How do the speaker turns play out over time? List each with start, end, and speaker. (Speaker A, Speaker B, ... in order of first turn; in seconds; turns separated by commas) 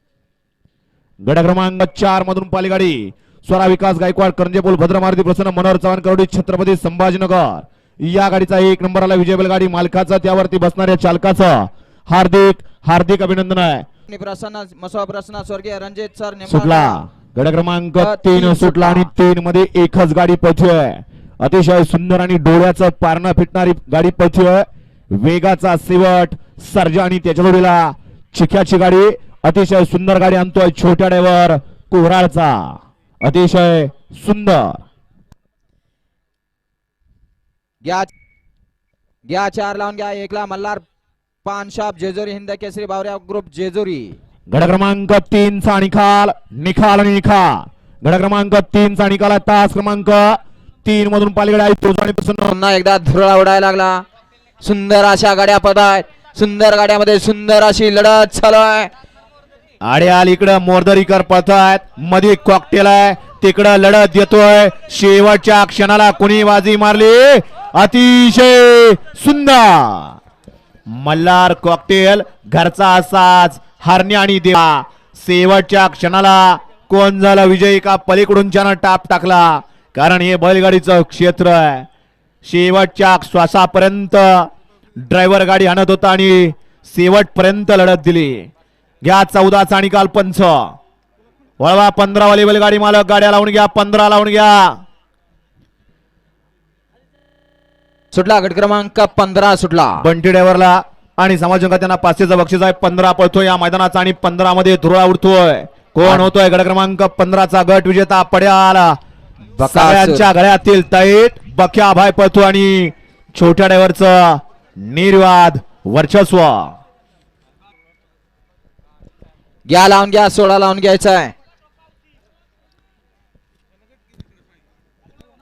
Speaker A: 1.2-13.8, Speaker B: 14.1-17.0, Speaker A: 16.5-34.8, Speaker B: 18.0-19.1, Speaker B: 37.8-38.1, Speaker B: 39.2-40.8, Speaker B: 41.4-44.2, Speaker A: 44.5-52.5, Speaker B: 52.4-54.0, Speaker B: 54.6-58.9, Speaker A: 59.9-70.2, Speaker A: 70.9-81.9, Speaker A: 82.4-84.5, Speaker A: 85.1-88.5, Speaker A: 89.0-90.7, Speaker A: 91.6-94.8, Speaker B: 98.1-100.0, Speaker A: 100.0-109.0, Speaker B: 106.0-106.3, Speaker B: 109.6-110.3, Speaker A: 109.6-116.7, Speaker B: 119.7-121.3